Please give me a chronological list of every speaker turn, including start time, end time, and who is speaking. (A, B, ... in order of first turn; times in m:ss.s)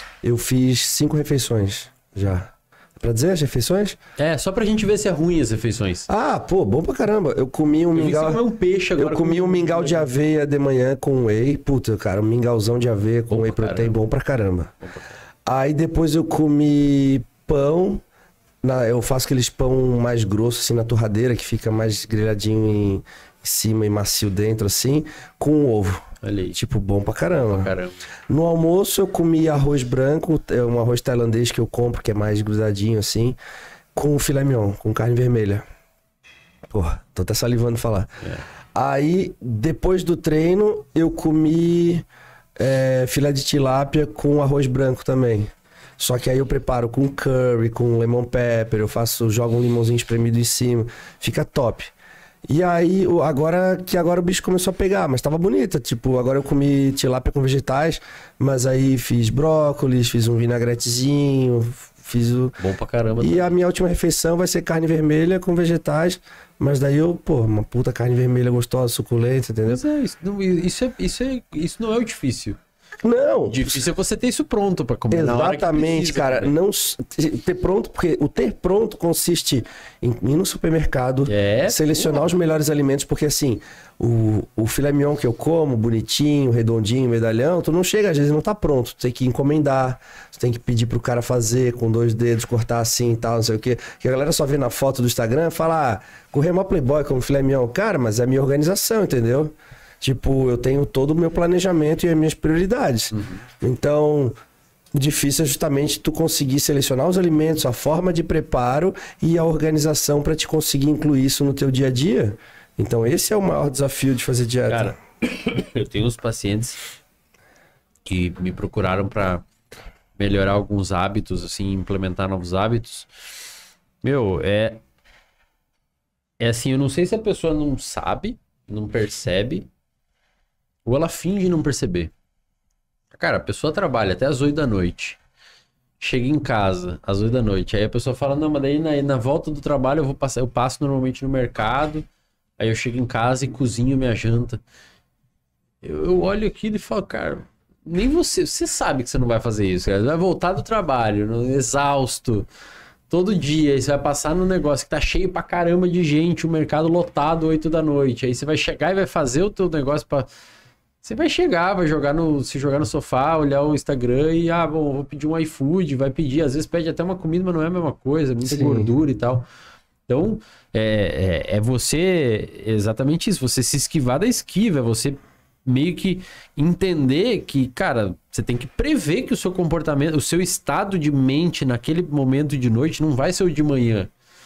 0:00.2-0:04.0 A
0:04.2-0:06.1 B
0:06.1-0:08.4 A
0:07.9-0:10.1 B
0:09.0-0:14.7 A
0:13.3-0:14.0 B
0:14.8-0:15.2 B
0:15.4-0:18.0 A
0:18.6-0:26.0 A
0:26.2-0:26.6 B
0:26.5-0:27.7 A
0:27.3-0:28.0 B
0:28.3-0:33.4 A
0:33.9-0:35.6 A
0:36.7-0:38.1 A
0:38.7-0:42.0 A
0:42.6-0:51.9 A
0:52.5-1:02.6 A
1:02.6-1:03.5 B
1:03.2-1:09.8 A
1:09.6-1:12.6 B
1:13.0-1:13.8 A
1:13.5-1:16.5 B
1:15.1-1:44.3 A
1:21.3-1:22.2 B
1:43.1-1:43.4 B
1:44.9-1:54.9 A
1:54.7-1:56.8 B
1:58.0-1:59.4 B
2:00.2-2:03.1 B
2:04.0-2:04.8 B
2:06.4-2:09.7 B
2:10.8-2:12.1 B
2:13.1-2:15.2 B
2:16.0-2:22.1 B
2:22.6-2:24.6 B
2:25.8-2:32.5 B
2:33.1-2:40.3 B
2:41.0-2:49.4 B
2:48.4-2:48.9 A
2:50.1-3:04.1 B